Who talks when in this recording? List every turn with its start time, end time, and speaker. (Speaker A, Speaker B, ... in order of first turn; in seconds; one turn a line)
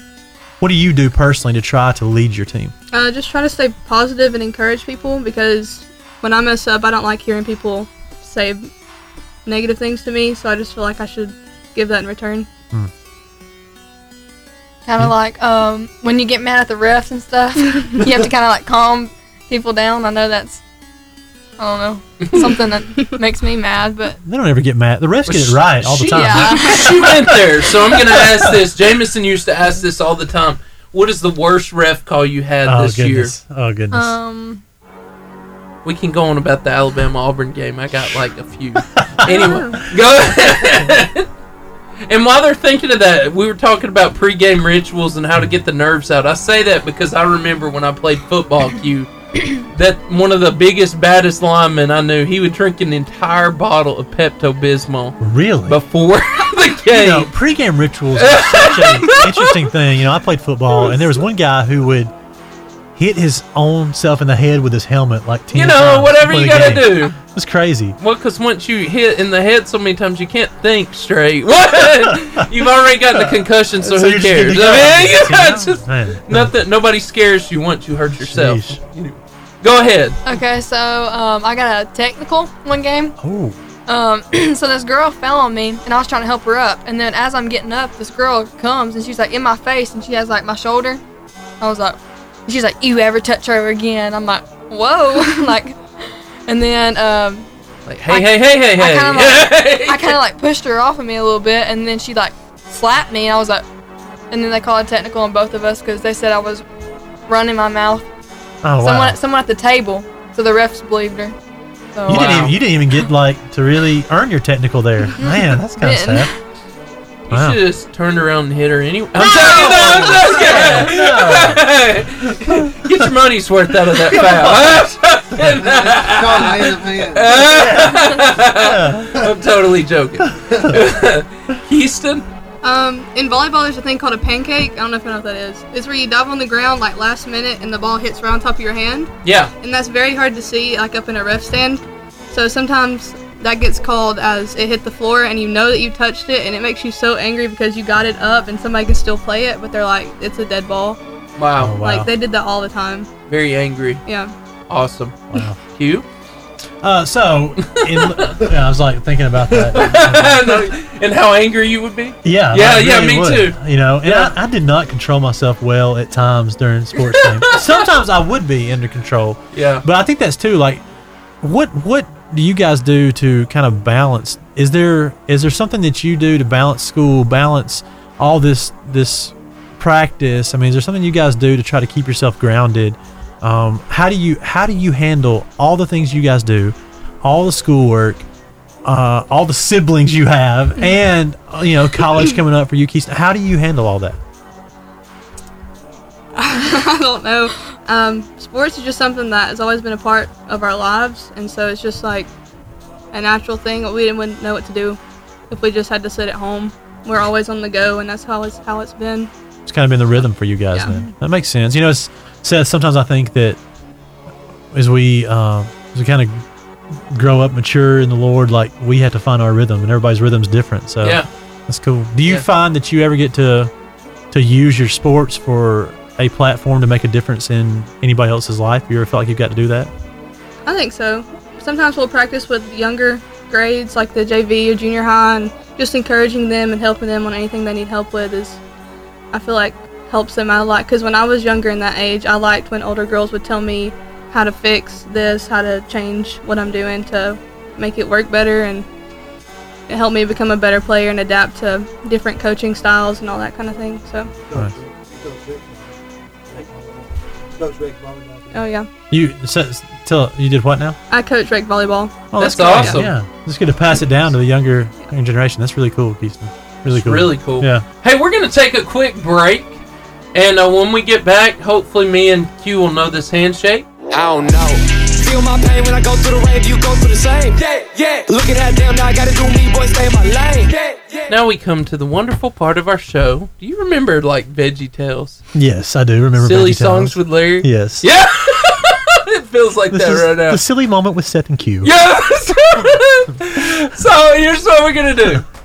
Speaker A: 0.6-2.7
Speaker B: 2.9-8.7
Speaker B: 9.4-12.5
Speaker C: 14.8-20.6
Speaker C: 21.6-24.2
Speaker A: 24.2-28.6
Speaker D: 25.3-33.3
Speaker C: 26.1-26.8
Speaker A: 32.6-34.2
Speaker C: 33.9-34.6
Speaker D: 35.8-41.3
Speaker A: 39.0-39.5
Speaker B: 39.3-39.8
Speaker D: 42.1-57.3
Speaker A: 55.2-55.8
Speaker A: 56.9-62.1
Speaker D: 58.2-59.5
Speaker A: 62.9-68.0
Speaker D: 65.5-67.2
Speaker D: 68.0-80.2
Speaker A: 72.0-72.4
Speaker A: 73.1-76.5
Speaker A: 78.1-78.8
Speaker C: 80.2-83.2
Speaker A: 83.2-83.6
Speaker C: 83.9-91.0
Speaker C: 91.6-97.5
Speaker D: 97.9-100.2
Speaker C: 98.1-103.6
Speaker C: 104.3-106.6
Speaker C: 107.3-108.0
Speaker A: 108.6-109.2
Speaker C: 108.8-111.3
Speaker C: 111.9-112.5
Speaker A: 112.0-116.3
Speaker D: 112.1-112.5
Speaker C: 115.2-116.3
Speaker D: 117.3-132.2
Speaker A: 117.3-117.6
Speaker C: 119.2-120.8
Speaker A: 119.3-121.6
Speaker A: 122.5-123.0
Speaker A: 124.1-124.5
Speaker E: 125.6-127.4
Speaker A: 127.5-129.2
Speaker B: 132.6-151.0
Speaker D: 139.2-139.5
Speaker D: 151.4-151.8
Speaker A: 151.6-152.1
Speaker B: 151.8-153.1
Speaker D: 153.3-154.0
Speaker B: 154.1-154.3
Speaker D: 154.7-156.1
Speaker A: 155.3-155.6
Speaker A: 156.8-160.7
Speaker D: 157.6-158.4
Speaker D: 159.7-164.3
Speaker A: 162.2-170.8
Speaker D: 167.2-167.8
Speaker D: 169.5-169.8
Speaker A: 171.4-188.2
Speaker A: 188.8-194.2
Speaker B: 196.3-202.3
Speaker B: 203.1-205.0
Speaker B: 205.5-209.3
Speaker A: 209.7-213.6
Speaker A: 214.7-216.4
Speaker A: 217.1-223.7
Speaker D: 221.0-221.3
Speaker A: 224.3-229.9
Speaker B: 230.6-238.6
Speaker B: 239.3-248.8
Speaker B: 249.9-254.3
Speaker E: 254.4-255.9
Speaker E: 256.5-258.7
Speaker B: 258.5-258.9
Speaker A: 259.1-261.0
Speaker B: 261.1-263.0
Speaker A: 262.3-267.8
Speaker D: 262.4-263.1
Speaker D: 266.9-269.8
Speaker D: 270.3-273.9
Speaker F: 274.1-281.3
Speaker D: 281.3-285.4
Speaker A: 285.5-288.1
Speaker D: 286.4-290.6
Speaker A: 289.9-291.9
Speaker D: 291.8-295.4